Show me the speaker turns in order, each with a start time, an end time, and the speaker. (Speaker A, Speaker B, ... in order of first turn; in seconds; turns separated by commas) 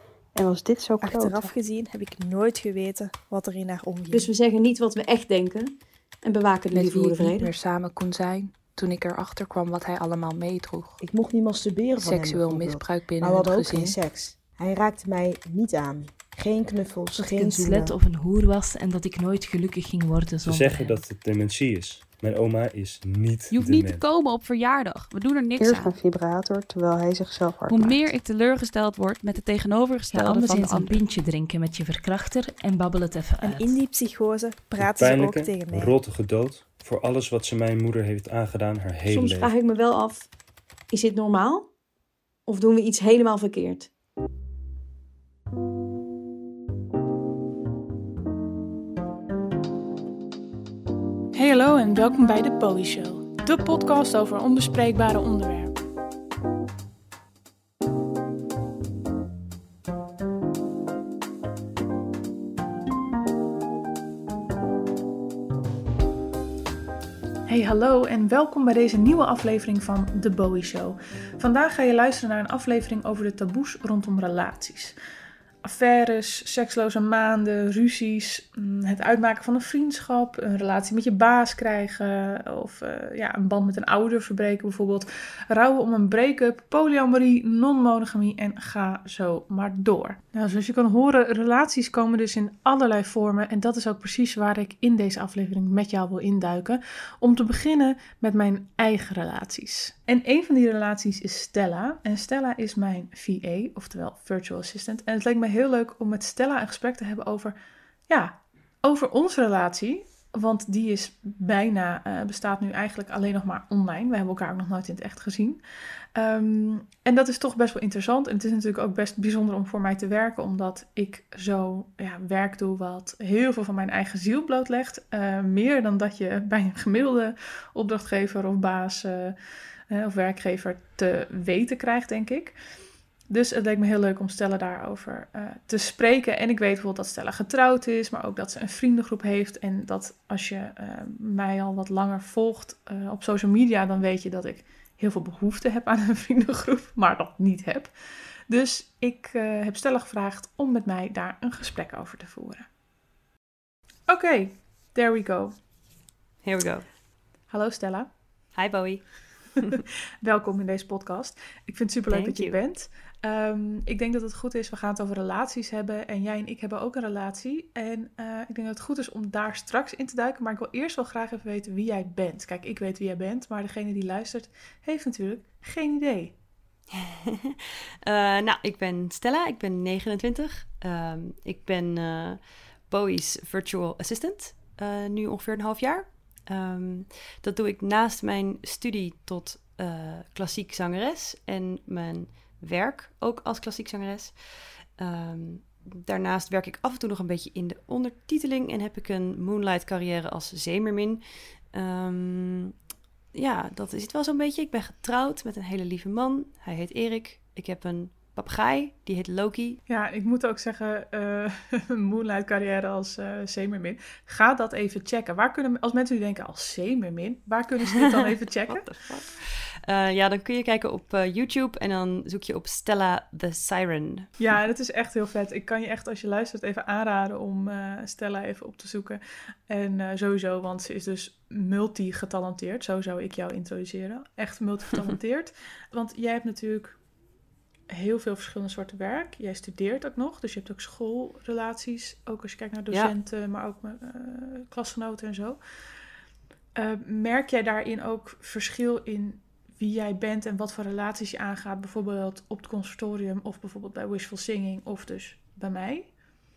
Speaker A: 0.3-1.5, Speaker B: 1.0-4.3, Speaker C: 4.1-7.5, Speaker D: 6.7-11.0, Speaker E: 11.0-17.9, Speaker D: 12.0-14.0, Speaker F: 17.1-21.0, Speaker G: 20.4-24.0, Speaker H: 23.5-25.9, Speaker A: 25.6-28.1, Speaker H: 27.7-31.0, Speaker F: 30.1-33.8, Speaker B: 33.4-35.9, Speaker G: 34.8-39.5, Speaker C: 39.0-40.3, Speaker C: 40.9-41.8, Speaker C: 42.4-43.9, Speaker I: 51.3-55.8, Speaker I: 67.5-75.0, Speaker I: 75.6-115.6, Speaker I: 116.1-129.3, Speaker I: 129.9-132.5, Speaker I: 133.2-147.9, Speaker I: 148.5-152.7, Speaker I: 154.1-155.6, Speaker J: 156.4-156.9, Speaker I: 157.5-158.2, Speaker J: 158.5-159.7, Speaker I: 160.2-176.4, Speaker J: 162.1-162.6, Speaker J: 178.1-202.7, Speaker J: 203.3-209.8, Speaker I: 209.9-219.1, Speaker J: 218.6-224.3, Speaker I: 224.4-237.0, Speaker I: 237.9-245.6, Speaker I: 246.7-256.1